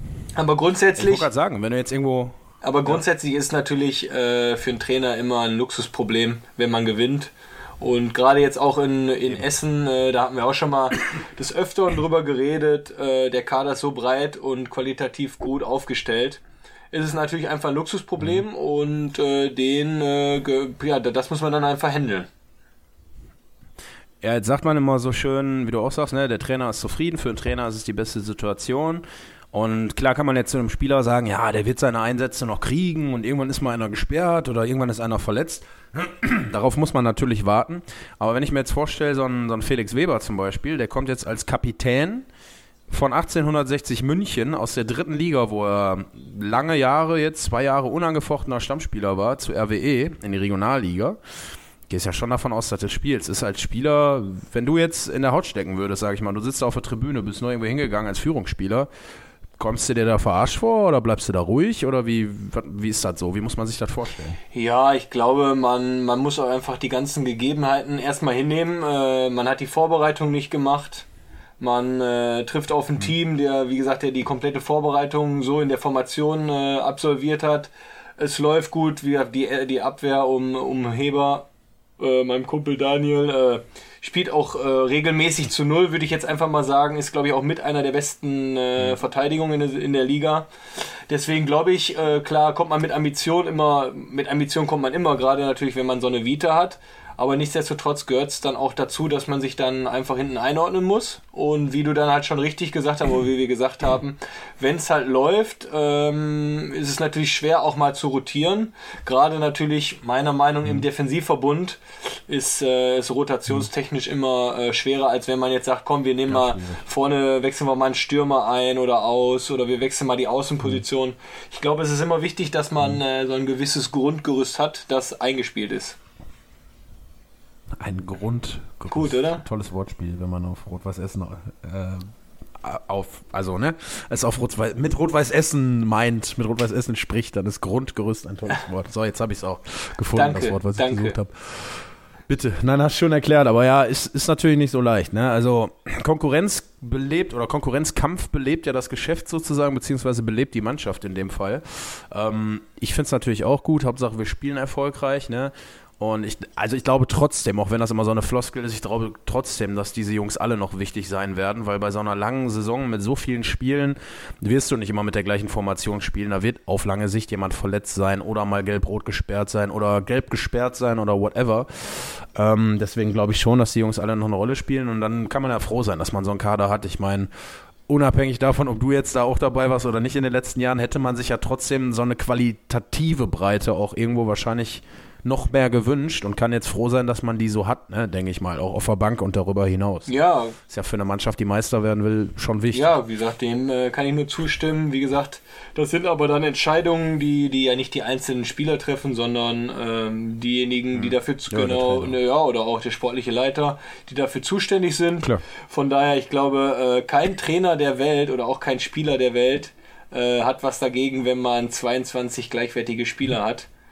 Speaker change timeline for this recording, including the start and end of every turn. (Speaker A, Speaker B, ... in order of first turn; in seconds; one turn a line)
Speaker A: 0.3-1.3
Speaker B: 1.0-2.4
Speaker A: 2.6-16.4
Speaker A: 16.9-22.3
Speaker B: 24.2-42.3
Speaker B: 42.9-51.2
Speaker B: 51.9-58.9
Speaker B: 59.6-64.4
Speaker A: 64.5-71.1
Speaker A: 71.6-81.5
Speaker A: 82.0-90.5
Speaker A: 91.1-126.0
Speaker B: 116.3-116.8
Speaker B: 127.8-177.3
Speaker A: 128.9-129.4
Speaker A: 140.2-141.2
Speaker B: 177.9-190.1
Speaker A: 190.1-190.6
Speaker B: 190.7-193.0
Speaker A: 192.7-213.7
Speaker B: 200.9-202.2